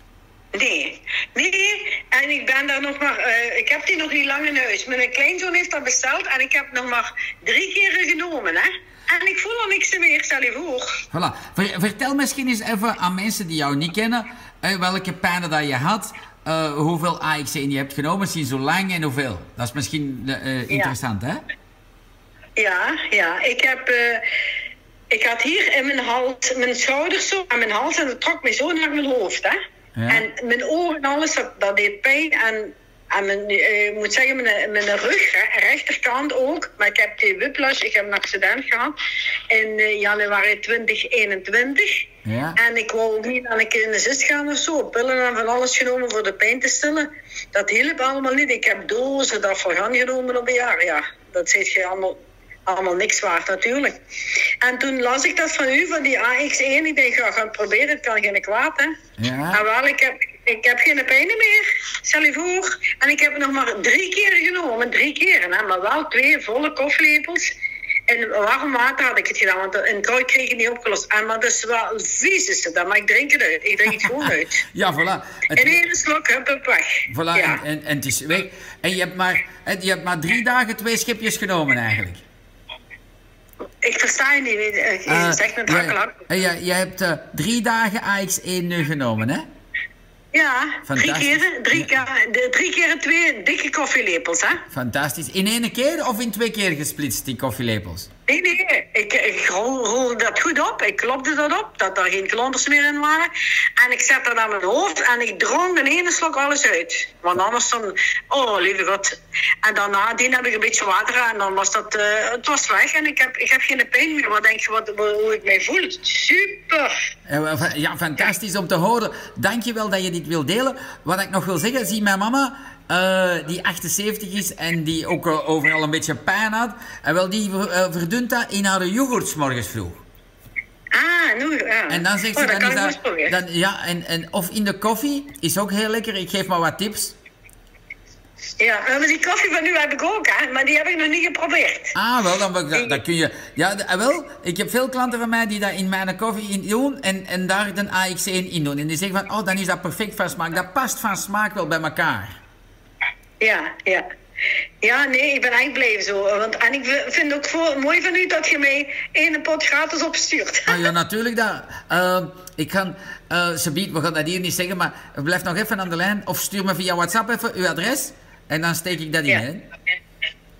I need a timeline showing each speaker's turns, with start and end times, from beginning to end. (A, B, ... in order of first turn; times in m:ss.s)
0:00.5-0:11.0 A
0:11.1-0:21.4 B
0:22.6-0:24.2 A
0:25.1-0:29.6 A
0:29.9-0:30.2 B
0:30.1-0:38.9 A
0:39.5-0:42.0 A
0:42.2-0:42.6 B
0:42.6-0:53.9 A
0:54.6-0:58.9 A
0:59.2-0:59.6 B
0:59.5-1:07.5 A
1:08.1-1:14.6 A
1:14.7-1:15.8 B
1:15.6-1:17.6 A
1:17.1-1:22.2 B
1:23.8-1:26.2 A
1:25.1-1:29.4 B
1:30.3-1:34.6 A
1:30.8-1:32.0 B
1:34.7-1:38.1 B
1:38.3-1:56.9 A
1:57.3-2:10.0 B
2:10.9-2:13.4 A
2:11.9-2:17.1 B
2:18.6-2:21.9 A
2:21.9-2:32.4 B
2:22.7-2:23.0 A
2:33.4-2:34.0 A
2:34.8-2:40.8 A
2:40.7-2:49.6 B